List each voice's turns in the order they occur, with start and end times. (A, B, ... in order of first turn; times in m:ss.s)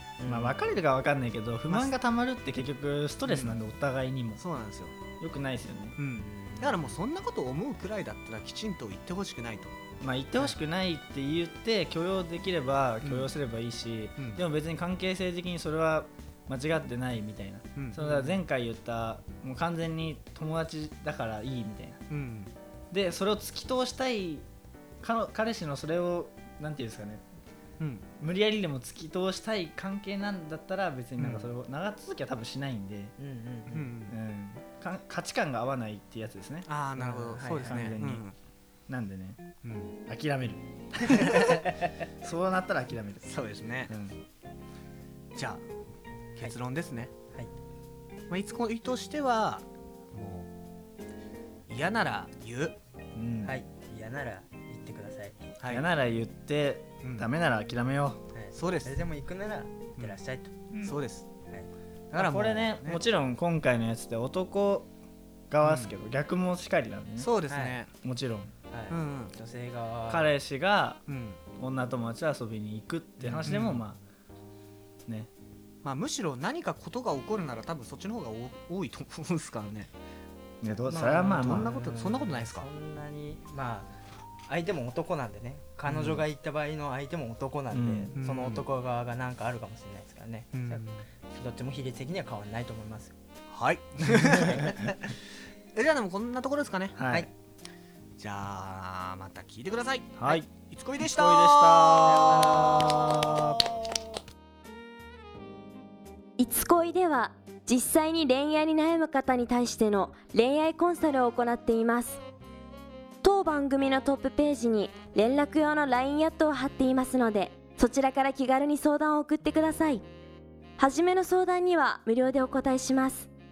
0:00.2-0:00.6 A
0:00.2-0:04.4 B
0:01.7-0:01.9 C
0:03.2-0:03.6 C
0:04.4-0:05.0 C
0:05.2-0:06.0 B
0:06.0-0:09.7 C
0:06.1-0:06.9 A
0:10.0-0:22.0 B
0:13.0-0:13.3 C
0:17.8-0:18.0 C
0:18.0-0:18.4 A
0:22.1-0:22.5 C
0:22.9-0:24.4 B
0:25.0-0:27.2 B
0:27.8-0:28.0 C
0:28.2-0:33.2 B
0:31.2-0:31.5 C
0:33.2-0:33.8 A
0:33.7-0:34.2 C
0:33.7-0:36.7 B
0:36.6-0:38.4 C
0:37.0-0:38.0 A
0:37.4-0:38.2 B
0:38.9-0:39.4 B
0:39.6-0:39.9 C
0:40.1-0:41.6 B
0:42.2-0:43.2 B
0:43.2-0:43.9 C
0:43.9-0:44.2 B
0:45.3-0:45.6 C
0:46.4-0:47.1 C
0:48.3-0:50.5 C
0:51.7-0:52.8 C
0:53.2-0:53.6 B
0:53.4-0:55.4 A
0:55.6-0:55.9 C
0:55.7-0:58.2 B
0:57.0-0:57.3 C
0:58.3-1:00.5 A
0:58.5-0:59.0 C
1:00.7-1:01.0 B
1:00.8-1:01.3 C
1:02.1-1:03.0 C
1:02.1-1:04.9 B
1:05.5-1:07.3 B
1:05.6-1:05.9 C
1:07.2-1:07.9 C
1:07.5-1:07.8 A
1:08.0-1:08.5 B
1:08.7-1:10.3 A
1:08.9-1:09.3 C
1:10.1-1:11.0 B
1:11.1-1:11.4 C
1:11.6-1:14.0 B
1:13.2-1:13.5 A
1:13.4-1:13.8 C
1:15.8-1:19.9 C
1:20.6-1:21.7 B
1:20.9-1:23.9 A
1:21.3-1:22.7 C
1:24.5-1:33.1 A
1:25.9-1:26.2 C
1:27.7-1:28.1 B
1:28.1-1:28.6 C
1:30.5-1:31.0 C
1:33.5-1:35.1 C
1:34.1-1:34.9 B
1:34.4-1:34.7 A
1:35.7-1:37.0 C
1:37.0-1:37.3 B
1:38.2-1:43.6 C
1:40.2-1:40.5 B
1:41.0-1:43.6 B
1:42.1-1:43.0 A
1:46.4-1:52.2 D
1:53.2-2:00.0 D
2:00.8-2:03.3 D